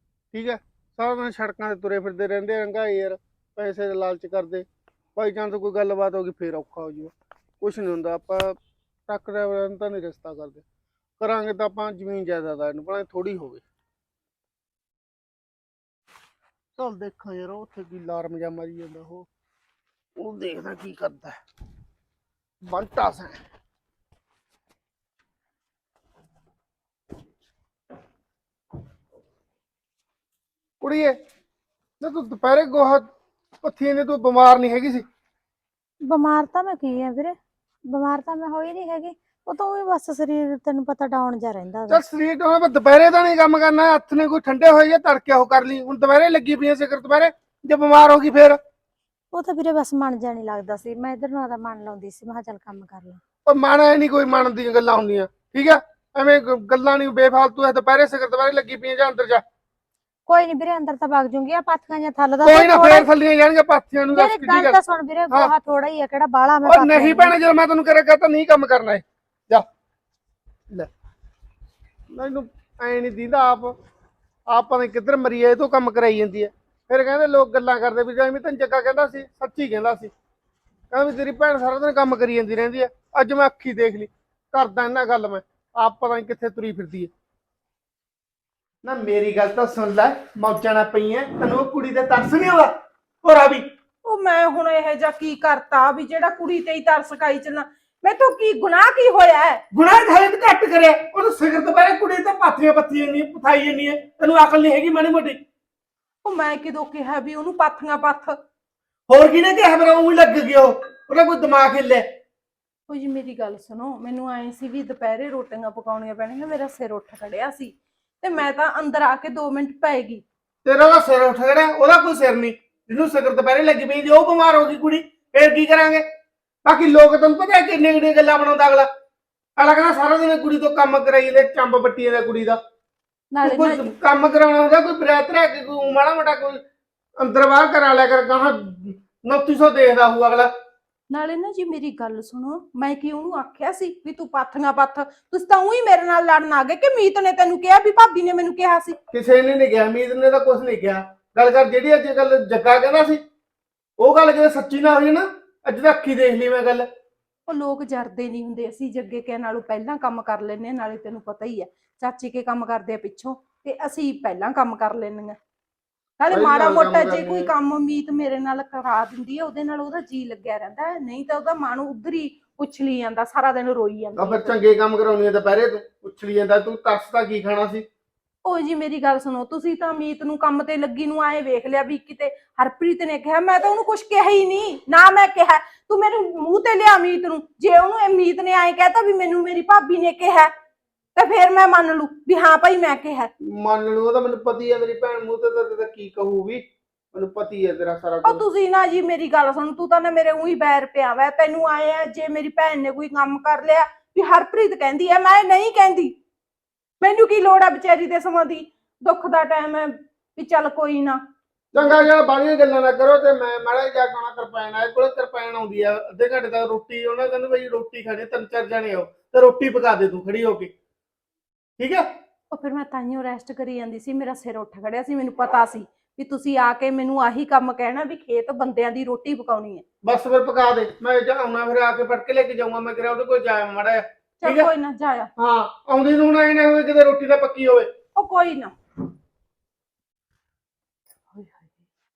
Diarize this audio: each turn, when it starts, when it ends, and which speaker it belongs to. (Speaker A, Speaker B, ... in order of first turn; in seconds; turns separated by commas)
Speaker A: 0.3-8.6, Speaker A: 9.1-10.6, Speaker A: 11.2-13.6, Speaker A: 16.8-19.2, Speaker A: 20.2-21.4, Speaker A: 22.6-23.4, Speaker A: 30.8-31.2, Speaker A: 32.0-33.1, Speaker A: 33.6-35.0, Speaker B: 36.1-37.4, Speaker B: 37.9-42.0, Speaker A: 41.9-48.6, Speaker B: 49.3-53.2, Speaker A: 53.5-59.4, Speaker B: 60.3-63.1, Speaker A: 62.4-64.8, Speaker B: 64.1-67.3, Speaker A: 66.7-69.6, Speaker A: 72.1-73.7, Speaker A: 74.5-80.1, Speaker A: 80.9-87.1, Speaker A: 88.8-92.7, Speaker A: 93.2-93.7, Speaker C: 94.0-99.6, Speaker A: 99.7-105.4, Speaker C: 106.2-108.3, Speaker A: 109.1-112.0, Speaker C: 112.9-120.2, Speaker A: 120.6-126.0, Speaker A: 126.6-128.9, Speaker A: 129.6-132.6, Speaker C: 133.3-133.9, Speaker A: 133.4-136.6, Speaker A: 137.2-140.5, Speaker C: 141.1-149.0, Speaker A: 149.1-153.2, Speaker A: 154.0-156.9, Speaker C: 157.5-165.4, Speaker C: 166.2-174.5, Speaker A: 166.3-167.5, Speaker A: 174.2-177.8, Speaker C: 178.4-190.5, Speaker C: 191.2-193.3, Speaker A: 193.5-198.4, Speaker C: 198.2-206.2, Speaker C: 207.0-211.2, Speaker A: 211.7-220.7, Speaker A: 221.8-222.0, Speaker C: 222.5-229.8, Speaker A: 230.0-234.7, Speaker C: 234.4-235.3, Speaker A: 235.4-237.9, Speaker C: 238.2-238.7, Speaker C: 241.3-241.8